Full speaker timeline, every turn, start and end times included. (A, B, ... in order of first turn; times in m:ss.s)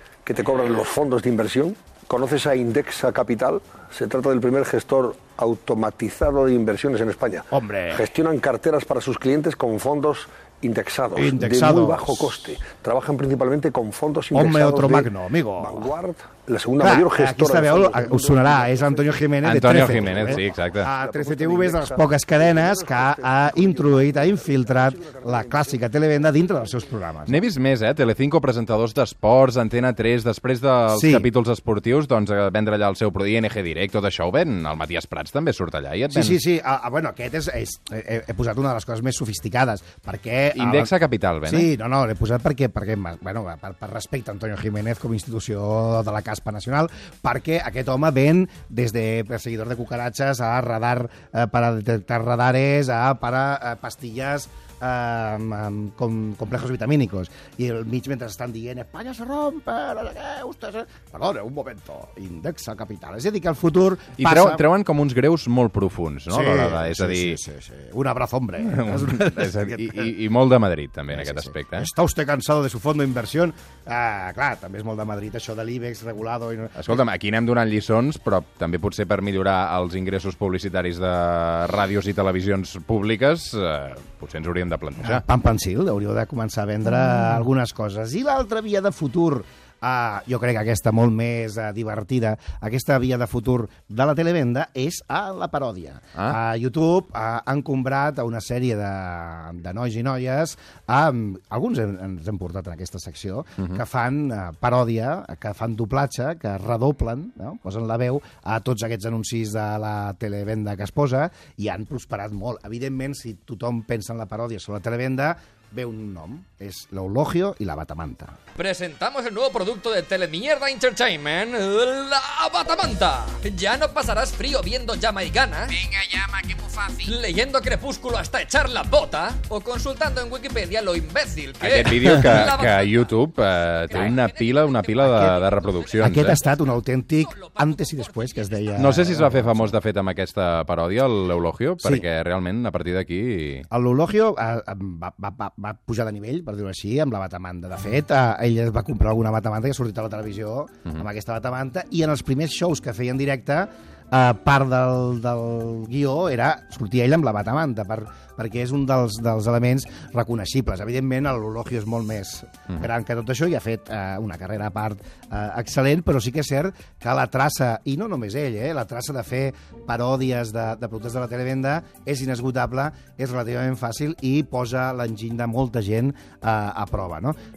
0:00.2-0:19.2 A
0:07.5-0:08.1 B
0:11.2-0:12.4 B
0:14.3-0:15.9 B
0:16.8-0:27.4 B
0:19.4-0:20.9 C
0:19.9-0:25.8 A
0:27.3-0:36.4 C
0:30.9-0:31.3 B
0:36.1-0:40.9 B
0:40.6-0:41.7 C
0:41.5-1:04.7 B
1:04.2-1:07.4 C
1:06.3-1:10.1 B
1:08.6-1:11.9 C
1:11.1-1:17.0 B
1:16.8-1:25.2 C
1:25.0-1:58.4 B
1:58.6-2:18.9 D
2:11.6-2:16.4 C
2:12.1-2:12.4 B
2:15.0-2:15.4 B
2:16.0-2:19.8 B
2:18.8-2:23.7 C
2:23.7-2:57.4 B